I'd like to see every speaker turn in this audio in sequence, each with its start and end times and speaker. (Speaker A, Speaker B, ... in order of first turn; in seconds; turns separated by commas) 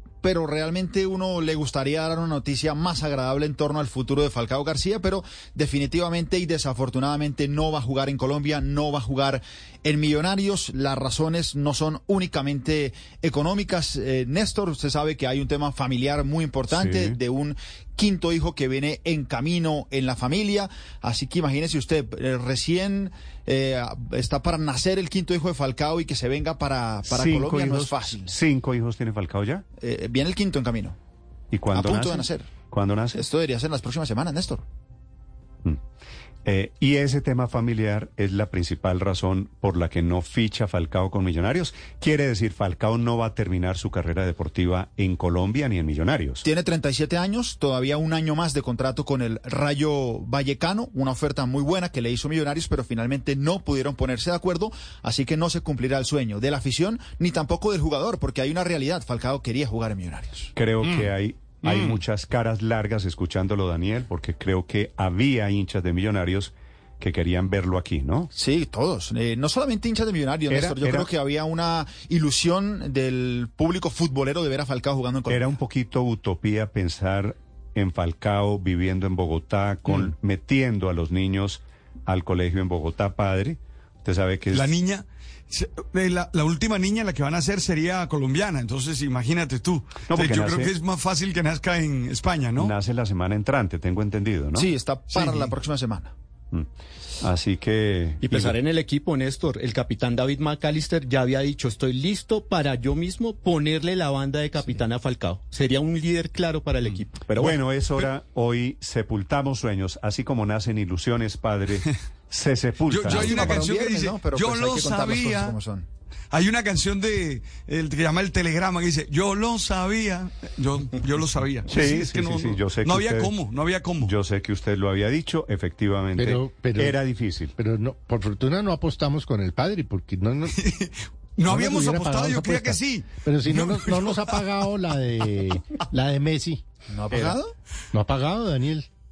Speaker A: 0.2-28.3, Speaker B: 16.7-17.2, Speaker B: 27.1-29.6, Speaker A: 29.8-31.0, Speaker B: 31.5-33.2, Speaker A: 31.7-32.5, Speaker A: 33.1-34.6, Speaker B: 36.5-46.5, Speaker A: 46.4-60.5, Speaker B: 60.5-68.3, Speaker C: 61.7-62.0, Speaker A: 68.3-75.4, Speaker B: 70.5-71.1, Speaker B: 75.3-84.7, Speaker C: 84.5-92.7, Speaker B: 90.1-90.7, Speaker B: 92.6-94.7, Speaker A: 94.5-96.1, Speaker C: 95.1-95.5, Speaker B: 97.2-98.6, Speaker D: 98.2-107.6, Speaker B: 107.3-113.6, Speaker C: 112.9-115.6, Speaker A: 113.1-115.9, Speaker C: 116.3-124.1, Speaker B: 121.7-123.3, Speaker B: 124.0-127.5, Speaker E: 126.2-127.0, Speaker E: 127.6-130.6, Speaker C: 130.5-134.6, Speaker E: 131.5-136.6, Speaker A: 136.9-137.5, Speaker B: 137.1-137.4, Speaker E: 137.9-138.9